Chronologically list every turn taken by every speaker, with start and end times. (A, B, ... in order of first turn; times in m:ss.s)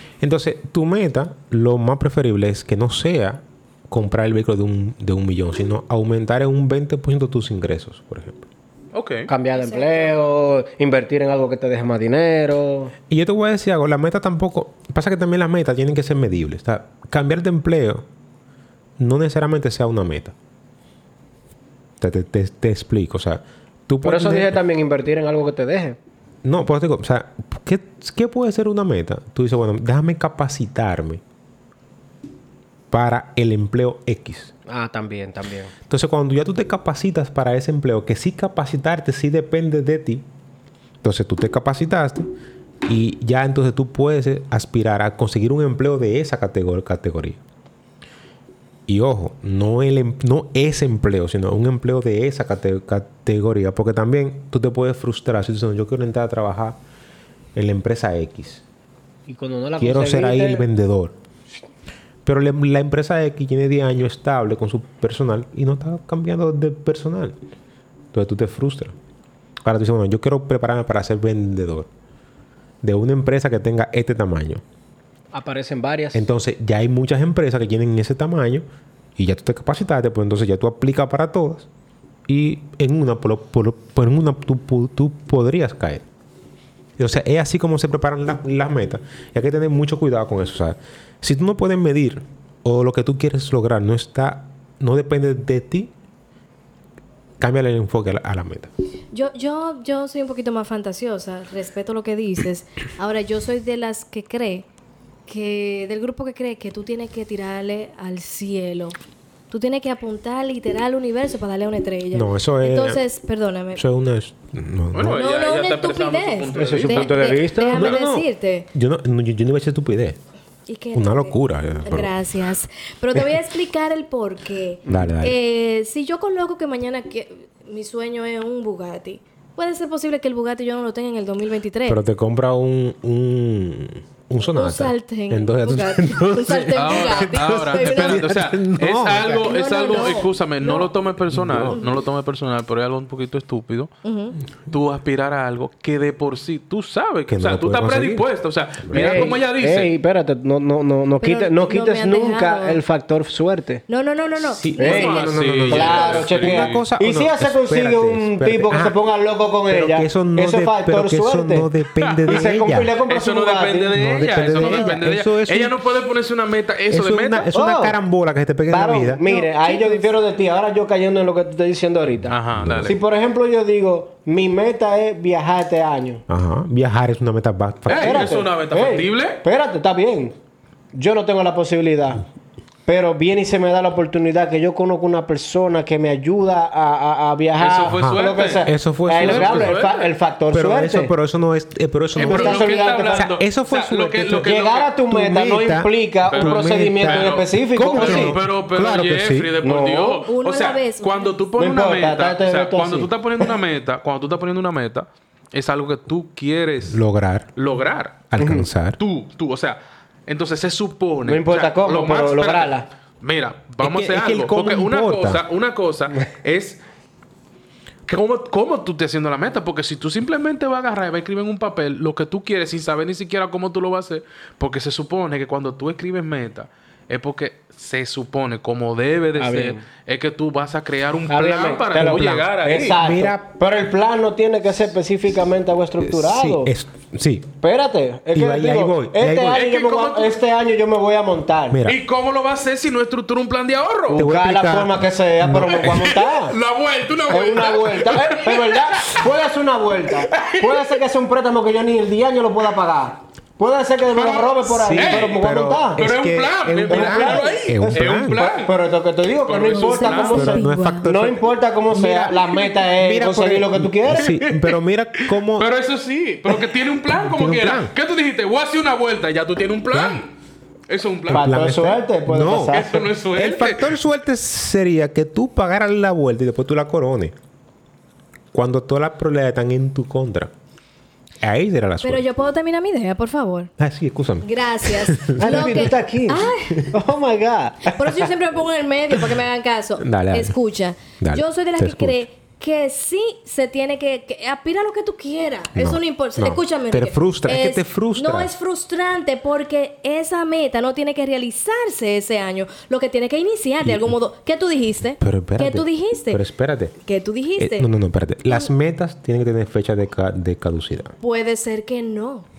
0:00.2-0:08.4 A
0:08.9-0:09.3 B
0:09.3-0:12.9 C
0:09.6-0:10.1 D
0:13.1-0:18.0 A
0:19.0-0:20.4 A
0:22.0-0:24.6 A
0:24.0-0:26.0 C
0:26.4-0:31.2 A
0:32.9-0:34.5 A
0:34.7-0:35.7 C
0:35.9-0:40.3 A
0:41.0-0:42.3 A
0:42.8-0:47.4 A
0:48.9-0:56.8 A
0:57.6-0:58.6 A
0:59.3-1:00.7 C
0:59.8-1:01.2 A
1:02.2-1:07.4 A
1:08.1-1:09.0 A
1:09.6-1:11.9 A
1:12.8-1:14.6 A
1:15.3-1:16.3 C
1:16.1-1:18.6 A
1:19.2-1:21.7 A
1:22.3-1:26.0 A
1:27.0-1:35.9 A
1:37.4-1:38.7 A
1:39.1-1:44.7 D
1:45.3-1:49.0 D
1:49.5-1:53.8 D
1:52.1-1:53.0 A
1:53.7-1:55.2 A
1:54.9-1:57.3 B
1:55.0-1:58.7 D
1:56.5-1:57.9 C
1:57.7-2:00.2 A
2:00.7-2:12.0 D
2:00.9-2:02.1 A
2:04.9-2:05.4 A
2:11.9-2:20.1 A
2:14.5-2:18.3 D
2:16.8-2:23.9 B
2:19.3-2:20.9 D
2:21.3-2:21.8 A
2:21.7-2:22.0 D
2:24.0-2:24.4 D
2:24.7-2:29.9 B
2:27.3-2:28.3 A
2:28.8-2:29.3 A
2:28.9-2:33.8 C
2:31.2-2:32.8 D
2:33.9-2:35.1 D
2:34.4-2:39.0 A
2:34.8-2:41.7 C
2:34.8-2:36.8 B
2:35.7-2:36.3 D
2:39.7-2:42.9 A
2:42.0-2:42.3 B
2:42.2-2:44.1 C
2:43.1-2:47.5 B
2:43.9-2:45.9 A
2:44.6-2:45.0 D
2:46.9-2:49.3 A
2:47.5-2:48.0 C
2:48.7-2:56.2 C
2:49.3-2:50.2 D
2:52.3-2:53.0 B
2:52.5-2:53.0 A
2:56.3-2:58.4 A
2:57.9-3:00.4 C
2:57.9-2:59.4 B
3:00.9-3:02.2 C
3:02.9-3:11.1 C
3:07.6-3:10.1 B
3:08.0-3:09.9 A
3:10.5-3:14.5 A
3:12.2-3:14.9 B
3:12.2-3:13.2 C
3:14.4-3:18.4 C
3:15.1-3:19.5 A
3:16.3-3:27.0 B
3:19.6-3:20.2 C
3:20.2-3:21.4 D
3:21.6-3:23.5 C
3:26.9-3:27.5 A
3:27.6-3:28.3 B
3:28.3-3:29.0 A
3:28.4-3:28.7 C
3:29.0-3:36.8 B
3:31.2-3:32.9 C
3:33.8-3:35.4 A
3:38.1-3:53.0 B
3:49.4-3:49.8 C
3:51.3-3:56.7 C
3:52.0-3:53.4 A
3:56.0-3:57.5 A
3:57.6-4:01.8 C
3:58.3-3:59.6 A
3:59.5-4:00.4 B
4:01.7-4:02.0 A
4:01.9-4:04.2 B
4:04.1-4:06.6 C
4:04.1-4:06.1 A
4:05.6-4:09.3 B
4:07.3-4:16.0 C
4:10.3-4:11.0 B
4:14.1-4:15.4 B
4:14.8-4:18.5 A
4:16.0-4:18.7 B
4:16.9-4:24.3 C
4:19.5-4:20.4 B
4:19.7-4:21.1 D
4:20.3-4:25.7 A
4:24.1-4:24.8 B
4:25.3-4:30.3 B
4:27.0-4:27.9 A
4:29.9-4:30.2 A
4:30.9-4:31.7 B
4:31.3-4:37.4 A
4:31.3-4:33.1 C
4:32.7-4:33.9 B
4:38.5-4:40.5 A
4:41.4-4:42.2 A
4:42.0-4:43.7 D
4:43.8-4:46.1 A
4:44.4-4:46.9 D
4:45.4-4:48.2 C
4:47.9-5:06.4 D
4:50.0-4:50.6 A
4:51.2-4:52.2 A
4:55.8-4:58.5 A
5:03.8-5:04.2 A
5:05.2-5:07.0 A
5:07.0-5:07.9 D
5:07.6-5:11.1 A
5:11.2-5:12.5 D